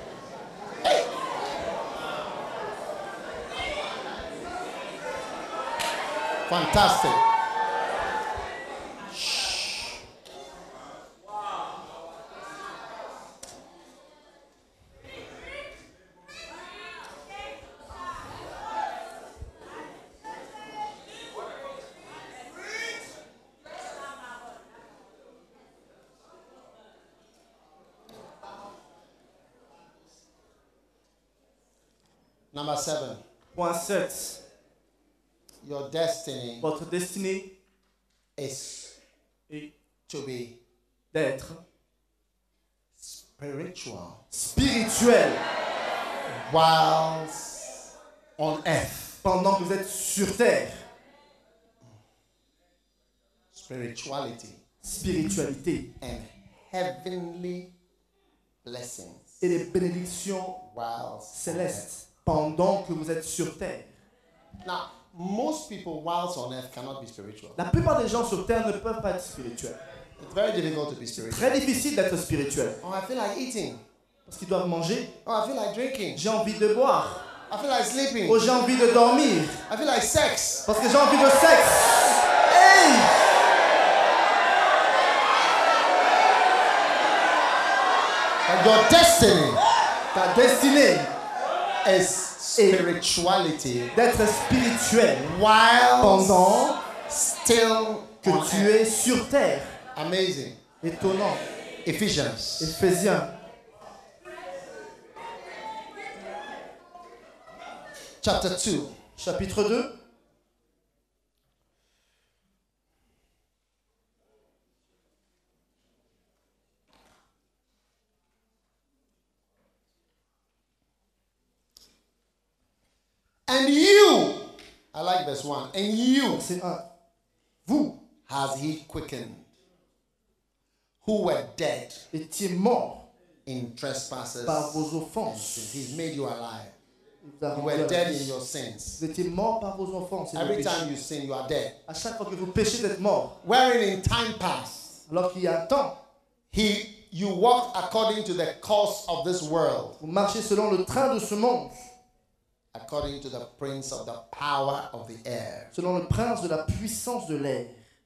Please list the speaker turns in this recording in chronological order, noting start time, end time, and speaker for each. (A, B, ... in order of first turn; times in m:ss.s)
0:06.5-0:07.2 A
0:09.1-0:10.0 A
0:32.5-0:33.2 A
0:33.5-0:34.4 B
0:35.6-0:36.6 A
0:36.6-0:37.5 B
0:38.4-0:38.9 A
0:40.1-0:40.6 A
0:41.1-0:41.6 B
0:43.0-0:44.2 A
0:44.3-0:45.4 B
0:46.3-0:47.9 A
0:48.4-0:49.2 A
0:49.2-0:50.8 B
0:53.5-0:54.6 A
0:54.8-0:55.9 B
0:56.0-0:57.7 A
0:58.6-0:59.4 A
0:59.4-1:00.6 B
1:00.6-1:01.8 A
1:01.3-1:03.9 B
1:04.6-1:07.6 A
1:07.6-1:09.8 B
1:10.2-1:11.5 A
1:11.2-1:12.8 B
1:12.8-1:13.8 A
1:14.3-1:15.1 B
1:15.2-1:16.2 A
1:16.1-1:17.3 B
1:17.5-1:18.4 A
1:18.3-1:19.6 B
1:19.7-1:20.6 A
1:20.6-1:23.3 B
1:28.4-1:29.6 A
1:30.1-1:31.1 B
1:31.8-1:33.9 A
1:32.6-1:32.9 B
1:33.9-1:35.4 B
1:35.2-1:38.7 A
1:36.0-1:36.8 B
1:38.2-1:39.7 B
1:39.9-1:40.6 A
1:40.8-1:41.4 B
1:41.8-1:42.8 A
1:42.6-1:43.3 B
1:48.2-1:48.9 A
1:49.2-1:49.9 B
2:03.5-2:06.4 A
2:06.3-2:06.8 B
2:07.6-2:08.0 B
2:08.3-2:09.5 A
2:11.0-2:12.0 A
2:12.1-2:13.0 B
2:13.4-2:16.7 A
2:14.4-2:16.0 B
2:17.2-2:18.3 B
2:17.5-2:19.0 A
2:19.0-2:20.9 B
2:20.3-2:21.7 A
2:21.9-2:23.4 B
2:23.4-2:25.0 A
2:25.1-2:26.0 B
2:26.5-2:30.0 A
2:30.0-2:31.9 B
2:32.7-2:35.7 A
2:35.7-2:37.8 B